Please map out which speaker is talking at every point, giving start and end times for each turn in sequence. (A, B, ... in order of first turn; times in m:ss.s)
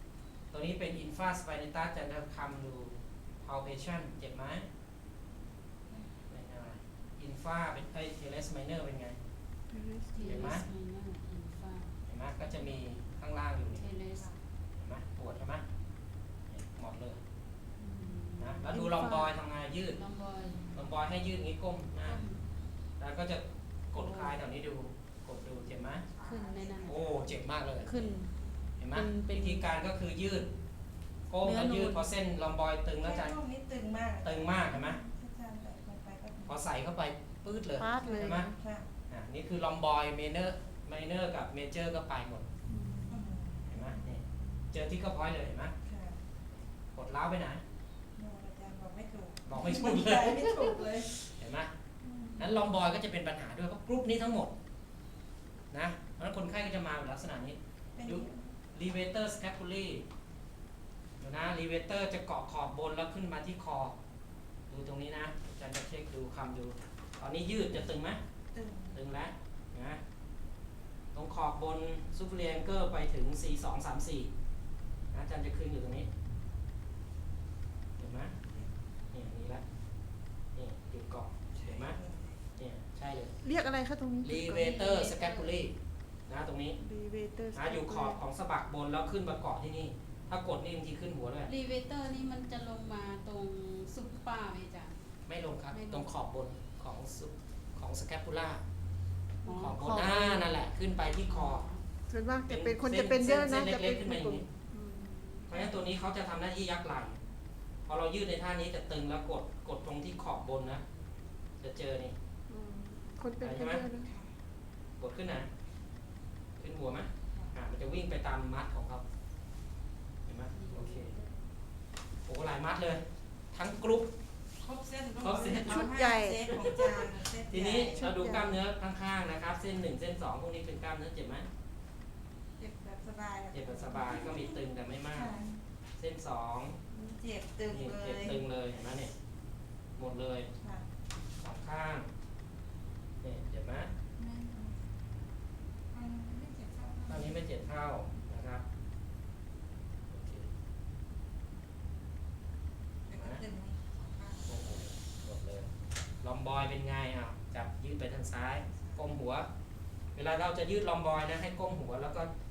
0:00.5-0:04.7 A
0:06.3-0:09.2 A
0:09.7-0:10.3 B
0:10.1-0:12.0 C
0:10.2-0:10.7 A
0:12.1-0:13.9 A
0:13.7-0:14.4 C
0:14.7-0:15.6 A
0:16.5-0:17.2 A
0:17.8-0:19.2 C
0:18.4-0:20.0 A
0:18.7-0:19.2 B
0:20.0-0:20.7 C
0:20.7-0:22.2 A
0:22.0-0:22.4 C
0:23.0-0:26.1 A
0:24.0-0:24.4 C
0:26.1-0:27.0 D
0:26.2-0:27.2 C
0:26.8-0:28.0 A
0:27.8-0:28.3 C
0:27.9-0:28.2 D
0:28.8-0:30.5 A
0:28.9-0:29.6 C
0:31.3-0:33.4 A
0:31.5-0:31.9 C
0:33.0-0:36.6 D
0:34.2-0:35.0 A
0:36.5-0:38.5 A
0:37.8-0:38.5 B
0:37.9-0:38.9 D
0:39.1-0:42.5 A
0:42.8-0:44.0 D
0:43.7-0:45.7 A
0:45.8-0:46.2 D
0:46.9-0:47.6 A
0:48.2-0:51.1 D
0:49.4-0:51.7 A
0:52.0-0:52.5 D
0:52.4-0:54.5 A
0:55.7-1:00.0 A
0:58.0-0:58.5 D
1:01.2-1:04.0 A
1:04.7-1:08.2 A
1:08.5-1:09.0 D
1:08.9-1:10.0 A
1:11.1-1:14.3 A
1:15.1-1:16.1 A
1:18.0-1:18.4 A
1:19.1-1:19.6 A
1:20.6-1:22.0 A
1:21.6-1:22.4 D
1:22.6-1:23.4 A
1:23.4-1:24.9 B
1:24.2-1:25.8 A
1:24.8-1:25.5 C
1:26.3-1:26.8 A
1:26.8-1:28.2 B
1:27.5-1:31.5 A
1:31.5-1:35.0 C
1:35.3-1:38.6 A
1:35.7-1:36.1 C
1:39.4-1:39.9 C
1:39.4-1:41.7 A
1:39.8-1:40.5 B
1:41.2-1:41.8 C
1:42.1-1:45.3 B
1:42.5-1:44.5 A
1:45.5-1:47.2 A
1:47.9-1:50.8 A
1:51.6-1:52.2 A
1:52.5-1:54.1 B
1:53.4-1:53.9 A
1:54.0-1:54.3 D
1:55.0-1:55.5 A
1:56.6-1:59.0 A
2:00.2-2:01.2 A
2:00.5-2:01.3 C
2:02.2-2:04.1 A
2:04.6-2:08.1 D
2:05.2-2:06.0 A
2:05.6-2:06.5 B
2:06.5-2:11.5 A
2:07.9-2:08.6 B
2:12.6-2:14.6 D
2:13.5-2:15.4 A
2:15.1-2:15.6 D
2:16.0-2:16.8 A
2:16.9-2:18.4 D
2:17.7-2:19.1 A
2:20.0-2:20.5 A
2:20.6-2:20.9 D
2:21.4-2:22.1 A
2:23.2-2:23.9 A
2:24.2-2:24.9 D
2:25.9-2:27.4 D
2:27.1-2:28.6 A
2:30.1-2:30.5 A
2:33.1-2:34.6 D
2:33.2-2:33.4 A
2:34.4-2:35.7 A
2:36.2-2:39.5 A
2:38.7-2:39.0 D
2:40.2-2:42.3 A